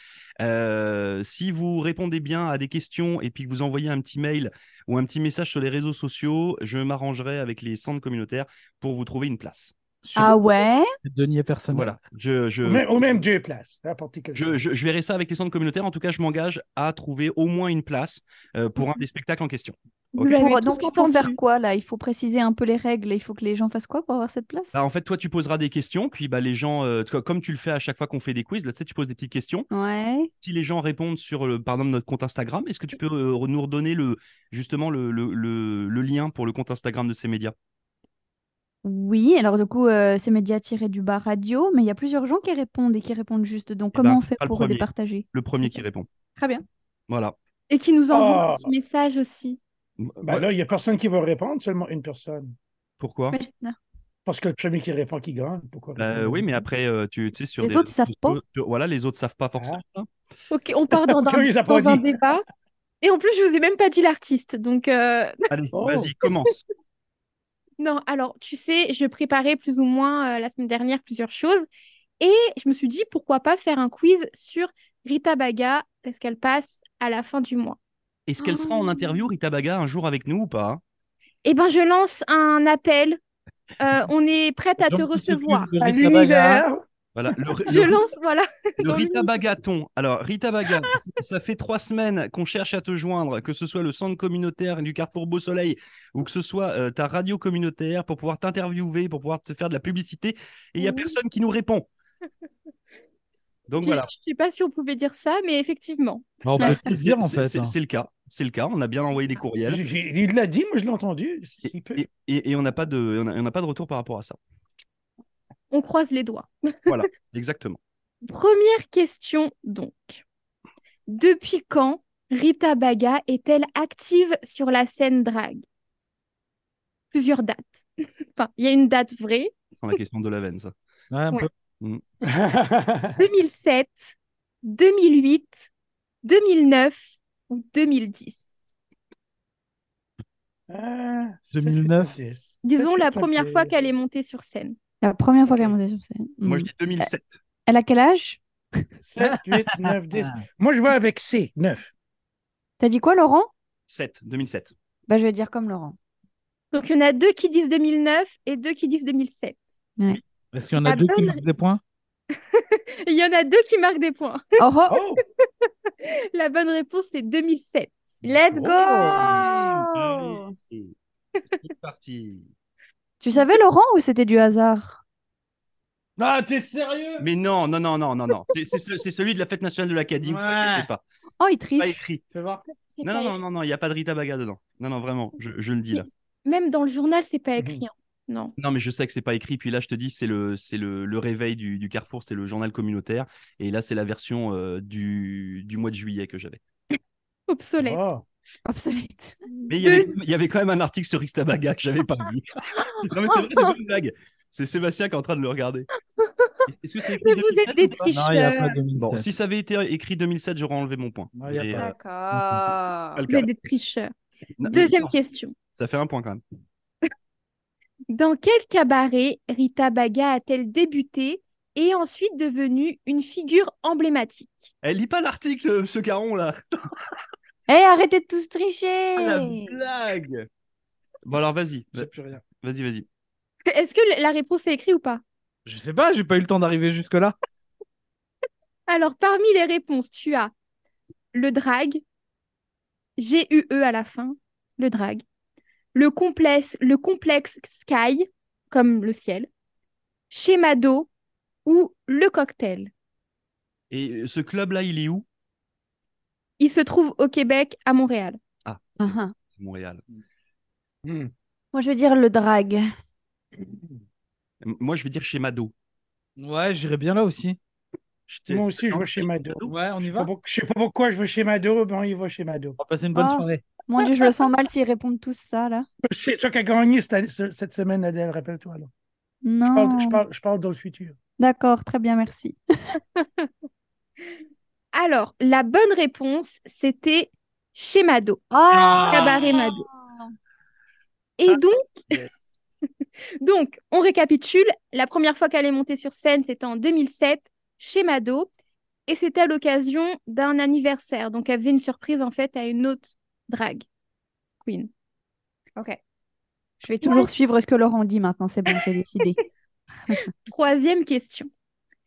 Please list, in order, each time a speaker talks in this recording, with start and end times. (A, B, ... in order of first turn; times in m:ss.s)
0:00.4-0:10.3 A
0:10.0-0:10.4 B
0:10.2-0:10.8 C
0:11.0-0:11.9 B
0:11.7-0:12.9 A
0:12.6-0:14.6 D
0:14.3-0:20.4 A
0:20.2-0:21.4 E
0:20.2-0:24.8 C
0:24.7-0:29.7 A
0:29.7-0:30.3 C
0:30.4-0:37.5 A
0:38.8-0:45.8 C
0:43.9-0:46.1 A
0:46.4-0:46.6 C
0:47.1-0:47.3 A
0:47.7-0:49.6 E
0:48.1-0:48.7 D
0:50.0-0:50.5 A
0:50.2-0:52.5 D
0:53.0-0:53.4 A
0:53.3-0:53.8 C
0:54.2-0:56.6 D
0:56.0-1:00.1 A
0:57.6-0:58.4 C
1:00.5-1:02.4 E
1:01.1-1:02.1 D
1:03.0-1:05.4 E
1:05.5-1:06.6 A
1:05.7-1:06.1 D
1:07.8-1:11.7 E
1:12.2-1:17.8 E
1:18.3-1:20.8 A
1:18.4-1:19.2 C
1:21.4-1:23.2 E
1:23.8-1:25.7 E
1:24.8-1:26.6 B
1:25.8-1:27.3 D
1:27.1-1:28.0 A
1:27.6-1:29.3 E
1:28.8-1:41.9 A
1:40.8-1:41.2 E
1:43.7-1:44.1 A
1:43.8-1:46.3 E
1:46.4-1:47.7 B
1:46.6-1:49.8 A
1:49.6-1:52.0 D
1:51.6-1:54.4 A
1:55.7-1:57.0 E
1:56.9-1:57.8 A
1:58.2-2:00.2 E
2:01.1-2:05.6 E
2:07.1-2:09.5 E
2:09.7-2:10.7 A
2:11.1-2:11.5 B
2:12.2-2:13.2 D
2:13.2-2:15.7 E
2:16.2-2:18.6 E
2:20.7-2:23.8 D
2:21.5-2:22.2 B
2:22.6-2:24.8 E
2:25.0-2:27.1 C
2:26.4-2:27.4 A
2:27.7-2:28.8 C
2:29.0-2:31.9 D
2:29.2-2:30.4 B
2:32.8-2:33.5 C
2:33.9-2:34.7 A
2:35.1-2:36.0 C
2:36.7-2:39.6 E
2:40.5-2:41.8 B
2:40.8-2:41.4 E
2:42.5-2:44.4 E
2:44.6-2:45.0 C
2:44.9-2:45.2 D
2:46.0-2:48.0 E
2:48.2-2:50.5 C
2:48.5-2:49.5 D
2:48.6-2:49.3 B
2:49.2-2:50.9 A
2:51.6-2:52.5 A
2:53.2-2:55.0 C
2:56.2-2:57.2 B
2:57.2-3:01.0 A
3:00.2-3:00.9 B
3:01.4-3:02.0 C
3:01.8-3:02.2 A
3:02.3-3:02.6 B
3:03.0-3:03.3 E
3:03.0-3:06.1 A
3:06.0-3:08.5 E
3:07.6-3:07.8 D
3:08.6-3:16.6 A
3:17.5-3:18.0 E
3:17.8-3:18.2 D
3:18.6-3:19.4 C
3:19.5-3:20.1 E
3:19.7-3:25.9 A
3:26.2-3:26.5 E
3:26.7-3:28.1 A
3:27.1-3:28.8 E
3:28.1-3:29.3 B
3:29.0-3:33.5 A
3:31.4-3:31.8 B
3:31.7-3:33.2 C
3:33.3-3:35.5 E
3:34.6-3:35.1 A
3:35.7-3:36.4 A
3:38.1-3:44.7 E
3:44.8-3:46.9 A
3:47.7-3:49.7 C
3:49.2-3:50.5 A
3:51.2-3:53.0 A
3:51.9-3:52.4 D
3:53.7-3:55.2 E
3:55.6-3:57.3 B
3:58.9-4:00.5 E
4:01.3-4:02.0 E
4:03.2-4:05.2 E
4:05.9-4:09.5 E
4:10.3-4:11.1 E
4:11.6-4:12.9 E
4:13.9-4:15.2 A
4:16.6-4:18.4 E
4:18.6-4:20.0 A
4:19.0-4:19.3 C
4:21.0-4:21.3 D
4:21.7-4:22.8 C
4:23.6-4:23.9 D
4:24.6-4:25.7 A
4:26.4-4:27.6 B
4:28.3-4:29.7 A
4:28.5-4:32.8 D
4:29.6-4:30.3 B
4:32.8-4:33.7 B
4:33.1-4:35.8 C
4:36.1-4:38.9 D
4:39.4-4:40.2 C
4:39.7-4:41.2 D
4:41.4-4:42.9 C
4:43.2-4:43.5 E
4:44.9-4:48.4 E
4:48.5-4:50.3 C
4:48.7-4:49.4 B
4:49.0-4:49.8 E
4:51.4-4:52.1 E
4:53.4-4:58.5 E
4:59.1-5:03.8 E
5:04.6-5:04.9 E
5:06.8-5:09.4 C
5:07.0-5:07.3 E
5:10.1-5:11.5 E